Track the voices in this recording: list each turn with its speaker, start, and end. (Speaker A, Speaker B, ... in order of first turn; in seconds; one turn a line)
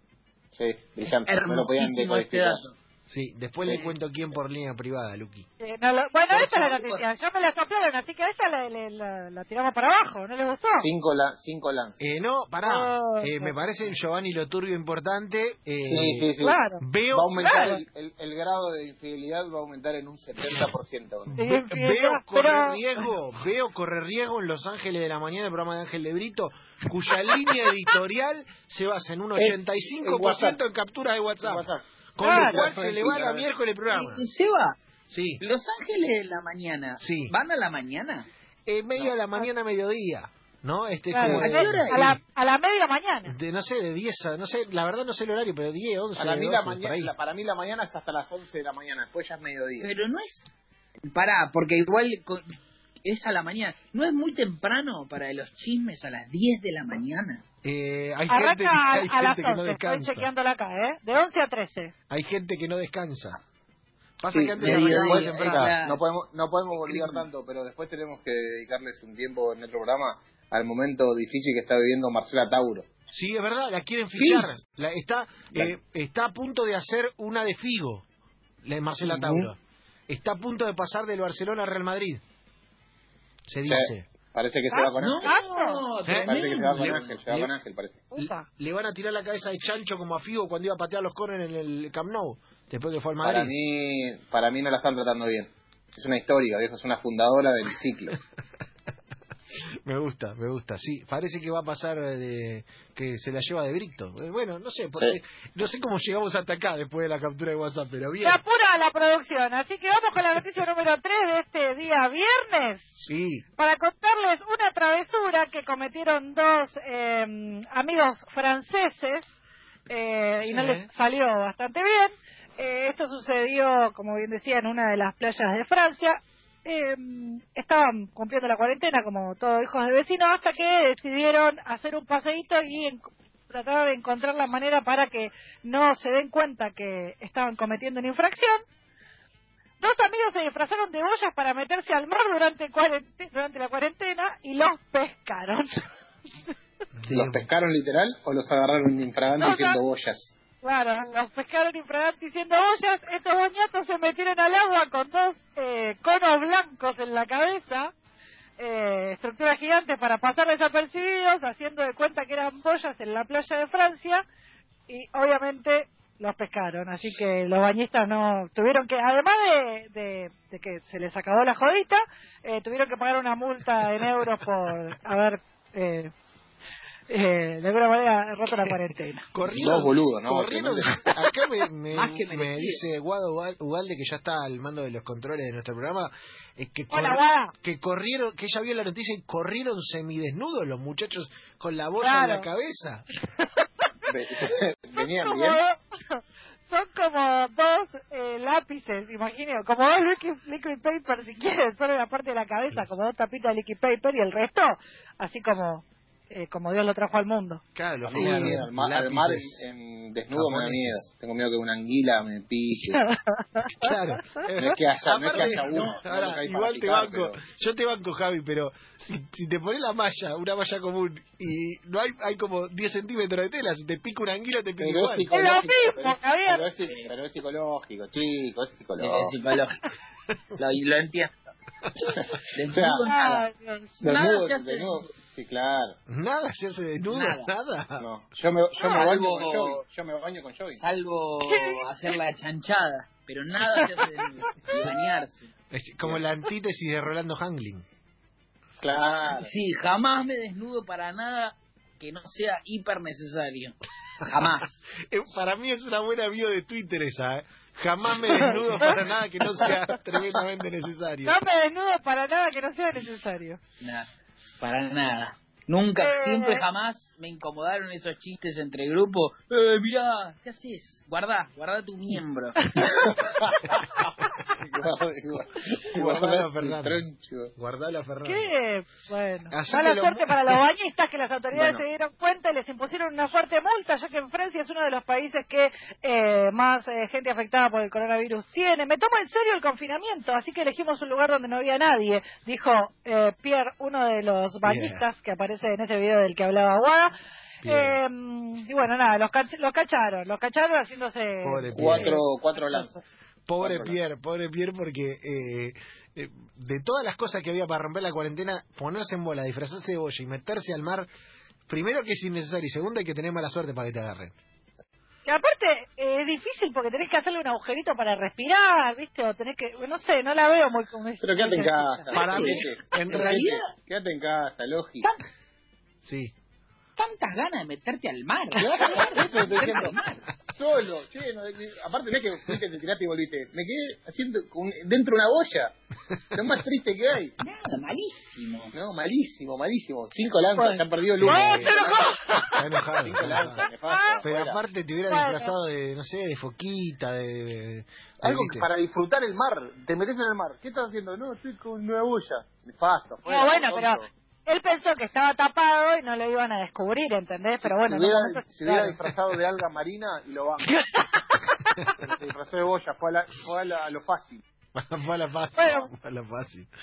Speaker A: 0.5-2.6
Speaker B: 1.0-2.8
Speaker C: 3.1-5.5
Speaker D: 5.6-10.9
Speaker B: 6.3-7.0
Speaker A: 10.8-12.0
Speaker C: 12.0-17.5
Speaker D: 12.6-13.5
Speaker A: 15.8-16.6
Speaker D: 16.4-16.8
Speaker A: 17.1-21.3
Speaker D: 17.4-17.8
Speaker C: 21.3-34.2
Speaker D: 21.4-22.8
Speaker A: 29.4-30.6
Speaker A: 31.4-33.5
Speaker D: 32.2-32.6
Speaker B: 33.9-34.8
Speaker C: 35.1-35.4
Speaker B: 35.4-38.3
Speaker C: 37.0-37.4
Speaker C: 38.7-42.2
Speaker D: 41.1-43.3
Speaker B: 41.3-42.0
Speaker C: 43.3-47.1
Speaker A: 46.2-49.9
Speaker B: 49.8-50.5
Speaker B: 51.1-52.5
Speaker B: 53.0-57.4
Speaker C: 57.6-60.3
Speaker D: 58.3-61.9
Speaker C: 62.1-63.4
Speaker C: 64.2-65.7
Speaker A: 64.3-72.9
Speaker B: 64.6-66.0
Speaker B: 66.7-67.3
Speaker C: 73.1-78.0
Speaker A: 74.2-74.5
Speaker C: 78.6-82.2
Speaker A: 79.0-79.5
Speaker C: 83.5-84.1
Speaker A: 83.6-85.3
Speaker D: 84.7-85.9
Speaker B: 85.0-87.2
Speaker C: 86.1-87.5
Speaker A: 86.2-88.0
Speaker D: 88.1-88.5
Speaker C: 88.2-93.5
Speaker A: 93.2-98.2
Speaker C: 99.8-108.4
Speaker D: 108.2-113.0
Speaker C: 113.1-113.5
Speaker D: 113.6-119.3
Speaker D: 119.9-138.6
Speaker C: 120.4-120.9
Speaker D: 139.8-145.8
Speaker C: 147.0-147.5
Speaker A: 147.1-150.3
Speaker D: 149.4-149.8
Speaker D: 150.6-157.9
Speaker D: 158.6-164.2
Speaker D: 164.9-176.1
Speaker D: 177.1-179.3
Speaker C: 179.3-193.1
Speaker B: 179.4-179.9
Speaker A: 179.5-181.3
Speaker B: 181.9-182.8
Speaker D: 186.9-187.5
Speaker D: 192.0-192.5
Speaker D: 193.4-193.9
Speaker A: 194.1-195.6
Speaker D: 195.0-207.6
Speaker C: 207.8-209.6
Speaker A: 208.0-213.0
Speaker D: 208.2-208.6
Speaker C: 210.3-211.0
Speaker D: 212.9-213.9
Speaker C: 213.8-225.3
Speaker A: 214.6-217.4
Speaker A: 224.8-229.3
Speaker D: 225.3-226.7
Speaker B: 229.0-229.8
Speaker B: 230.6-231.3
Speaker B: 232.0-233.2
Speaker A: 232.3-233.5
Speaker D: 233.1-233.9
Speaker A: 234.0-236.0
Speaker B: 234.0-235.1
Speaker C: 236.1-238.1
Speaker B: 237.1-237.5
Speaker A: 238.0-240.8
Speaker B: 238.8-239.8
Speaker B: 240.8-245.5
Speaker D: 241.4-241.9
Speaker C: 245.7-247.8
Speaker A: 248.8-249.5
Speaker B: 249.3-254.8
Speaker C: 255.1-261.4
Speaker D: 258.4-258.9
Speaker D: 261.2-263.6
Speaker B: 263.8-264.1
Speaker B: 264.6-273.1
Speaker D: 266.0-266.6
Speaker A: 273.1-273.8
Speaker A: 274.6-277.5
Speaker C: 275.9-277.0
Speaker C: 277.6-278.5
Speaker D: 278.2-297.1
Speaker C: 279.5-280.6
Speaker A: 281.5-281.8
Speaker C: 294.6-295.0
Speaker C: 297.6-298.0
Speaker D: 297.6-302.2
Speaker C: 301.4-302.2
Speaker A: 301.7-304.0
Speaker C: 303.5-311.1
Speaker C: 311.7-314.3
Speaker D: 315.2-322.4
Speaker A: 321.2-325.1
Speaker C: 322.1-323.5
Speaker B: 322.1-323.7
Speaker C: 326.0-326.3
Speaker B: 327.0-330.2
Speaker A: 328.6-335.8
Speaker A: 336.3-337.4
Speaker B: 337.4-338.7
Speaker A: 338.7-342.1
Speaker D: 340.6-342.6
Speaker C: 341.2-341.8
Speaker C: 342.5-343.7
Speaker A: 343.0-344.6
Speaker D: 343.6-344.2
Speaker C: 344.2-348.7
Speaker D: 345.1-345.5
Speaker A: 348.2-354.1
Speaker D: 353.3-359.0
Speaker A: 357.6-360.9
Speaker D: 361.1-361.7
Speaker A: 362.0-364.4
Speaker C: 364.8-366.7
Speaker D: 365.6-365.9